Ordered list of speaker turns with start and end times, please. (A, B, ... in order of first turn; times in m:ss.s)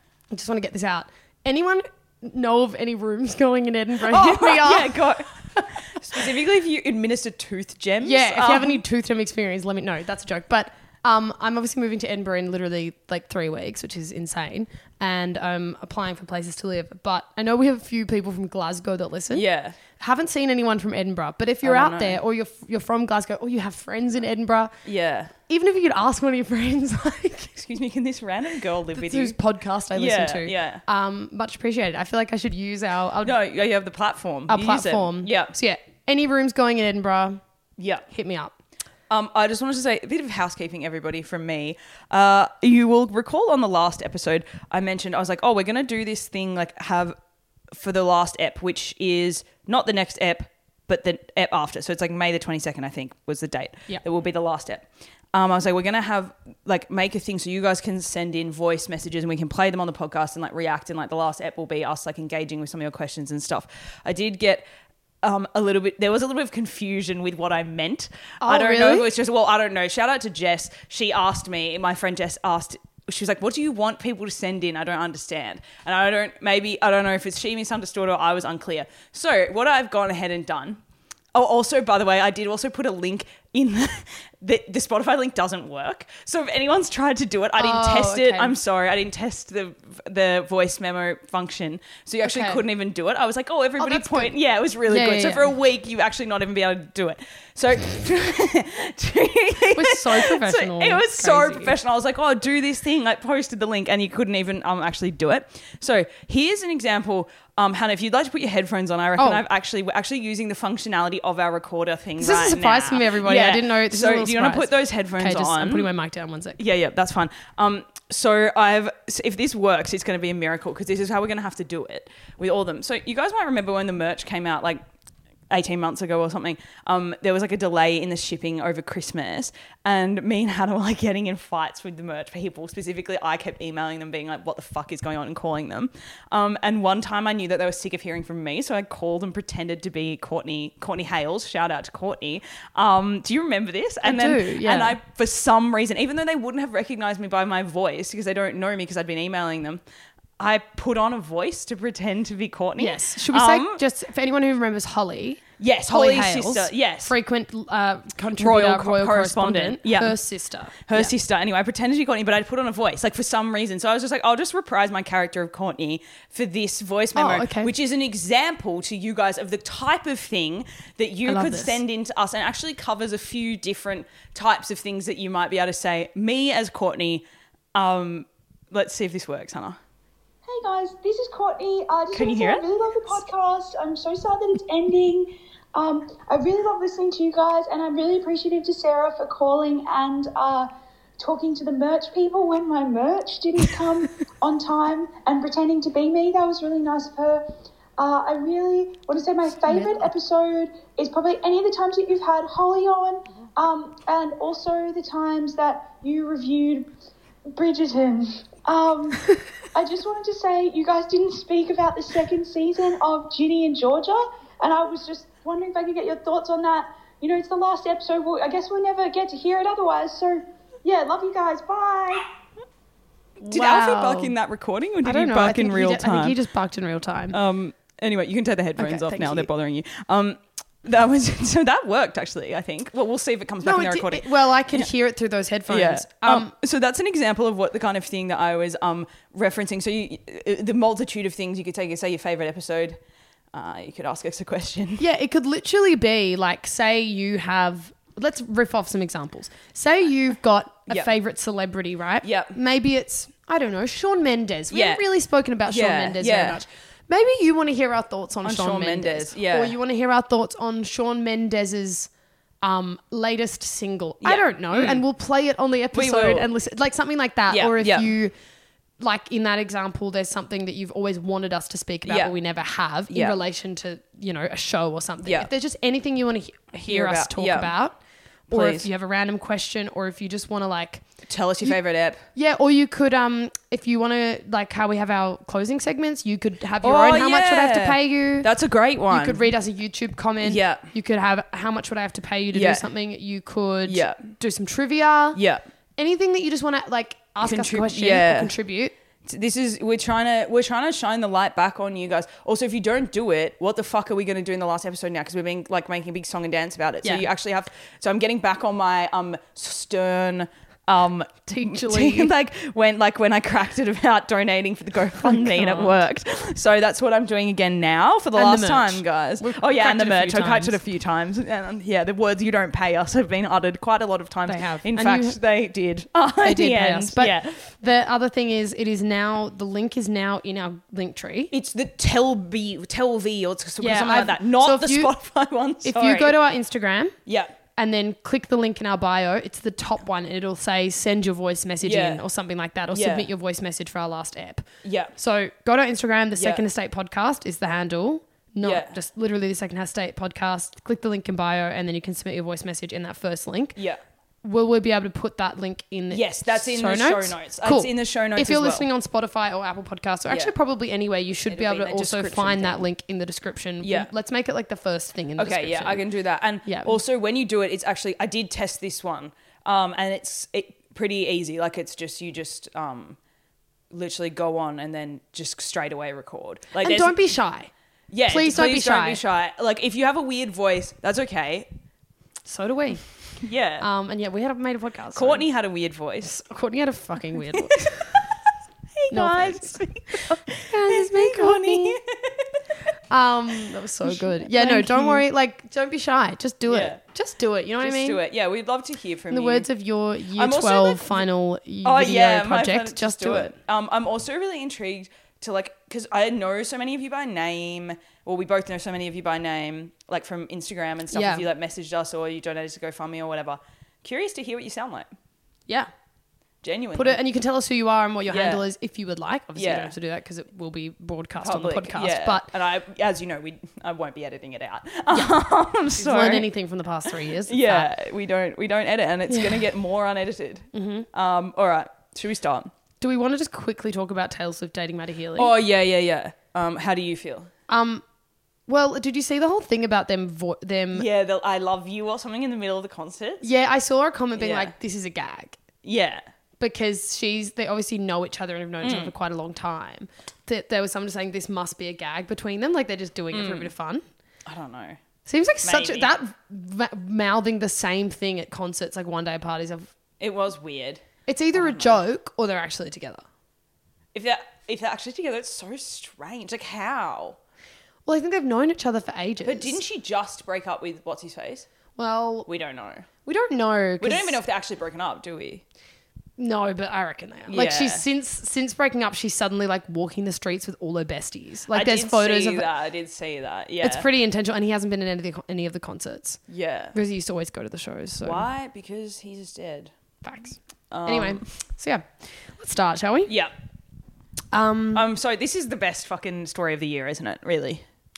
0:00.3-0:05.0 A
0:04.0-0:08.8 B
0:08.0-0:24.7 A
0:19.3-0:19.8 B
0:21.6-0:22.2 B
0:24.8-0:25.3 B
0:25.5-0:27.5 A
0:27.6-0:29.4 B
0:28.9-0:33.4 A
0:29.9-0:30.8 B
0:33.2-0:35.5 B
0:34.5-0:37.4 A
0:37.8-0:38.0 B
0:38.1-0:38.5 A
0:39.1-0:47.2 B
0:47.7-1:04.6 B
1:05.2-1:20.8 B
1:08.4-1:09.1 A
1:21.3-1:55.9 B
1:27.6-1:28.5 A
1:32.2-1:32.6 A
1:33.8-1:34.3 A
1:34.8-1:35.5 A
1:39.7-1:41.7 A
1:49.2-1:49.4 A
1:52.2-1:56.6 A
1:56.6-2:04.8 B
2:05.5-2:29.8 B
2:24.0-2:25.0 A
2:30.4-2:33.8 B
2:32.8-2:41.1 A
2:35.6-2:37.1 B
2:38.4-2:40.2 B
2:40.9-2:59.8 B
2:47.1-2:47.7 A
2:51.2-2:51.8 A
3:00.4-3:17.4 C
3:02.1-3:03.3 B
3:13.6-3:14.0 B
3:18.0-3:26.9 C
3:19.6-3:20.1 B
3:19.7-3:20.0 A
3:27.5-3:29.2 C
3:29.7-3:42.2 C
3:43.4-3:44.3 A
3:43.4-3:46.4 B
3:45.0-3:47.4 A
3:47.3-3:54.9 B
3:48.8-3:49.5 A
3:53.6-3:56.5 A
3:55.7-4:03.0 B
4:03.5-4:05.0 B
4:05.0-4:22.1 A
4:12.2-4:12.6 B
4:14.7-4:15.0 B
4:15.7-4:16.6 B
4:18.4-4:19.7 B
4:22.6-4:28.3 A
4:24.2-4:25.0 B
4:25.9-4:26.5 B
4:27.5-4:28.1 B
4:29.0-4:38.0 A
4:32.0-4:32.3 B
4:33.1-4:33.4 B
4:35.2-4:35.5 B
4:36.8-4:37.7 B
4:38.5-4:38.9 B
4:38.5-4:41.0 A
4:41.3-4:42.2 B
4:42.3-4:48.5 A
4:46.8-4:49.4 B
4:49.1-4:55.4 A
4:50.4-4:50.9 B
4:52.5-4:52.9 B
4:53.8-4:54.2 B
4:55.3-4:55.6 B
4:56.0-4:59.0 A
4:57.4-4:58.5 B
4:59.2-5:27.7 B
5:11.5-5:12.3 A
5:15.2-5:16.0 A
5:18.3-5:20.8 A
5:24.5-5:25.4 A
5:26.4-5:31.5 A
5:31.5-5:36.4 B
5:33.8-5:35.1 A
5:35.8-5:37.1 A
5:37.2-5:37.6 B
5:37.8-5:53.8 A
5:41.8-5:42.2 B
5:42.9-5:43.3 B
5:44.8-5:45.1 B
5:46.4-5:46.6 B
5:48.6-5:49.0 B
5:53.8-5:54.0 B
5:54.4-6:06.0 A
5:56.1-5:58.8 B
6:00.3-6:00.5 B
6:01.4-6:02.8 B
6:03.8-6:04.1 B
6:05.4-6:13.2 B
6:06.6-6:07.0 A
6:13.9-6:17.2 B
6:16.8-6:17.7 A
6:18.1-6:21.7 B
6:18.3-6:19.2 A
6:22.4-6:23.0 A
6:23.4-6:23.9 B
6:23.8-6:25.4 A
6:25.1-6:26.3 B
6:26.2-6:28.2 A
6:27.5-6:28.3 B
6:28.9-6:32.5 B
6:29.1-6:32.0 A
6:33.1-6:38.2 A
6:34.0-6:35.2 B
6:36.7-6:37.0 B
6:37.8-6:39.7 B
6:39.3-6:43.6 A
6:40.3-6:41.2 B
6:41.8-6:55.1 B
6:51.1-6:51.4 A
6:56.6-6:57.2 B
6:56.9-7:02.5 A
6:58.3-6:58.6 B
6:59.6-6:59.9 B
7:01.4-7:06.5 B
7:05.9-7:07.9 A
7:07.1-7:12.7 B
7:09.3-7:09.7 A
7:10.7-7:11.1 A
7:13.0-7:15.5 A
7:15.4-7:17.5 B
7:17.7-7:18.0 A
7:18.7-7:21.0 A
7:20.9-7:23.5 B
7:23.4-7:25.6 A
7:24.4-7:24.7 B
7:25.8-7:26.2 B
7:26.6-7:34.0 A
7:28.8-7:29.1 B
7:33.3-7:33.7 B
7:34.4-7:35.0 B
7:35.2-7:39.9 A
7:35.6-7:36.1 B
7:40.2-7:42.0 B
7:41.3-7:43.2 A
7:44.1-7:47.4 B
7:48.0-7:49.8 A
7:49.4-7:51.7 B
7:52.0-7:52.5 A
7:52.4-7:53.1 B
7:53.2-7:54.4 A
7:54.0-7:55.6 B
7:56.4-8:02.7 A
7:57.5-7:58.0 B
8:01.7-8:04.1 B
8:03.8-8:06.4 A
8:06.5-8:07.0 B
8:06.9-8:08.5 A
8:08.2-8:09.9 B
8:10.2-8:13.3 A
8:10.9-8:11.4 B
8:13.3-8:13.5 B
8:14.5-8:15.1 A
8:14.9-8:17.8 B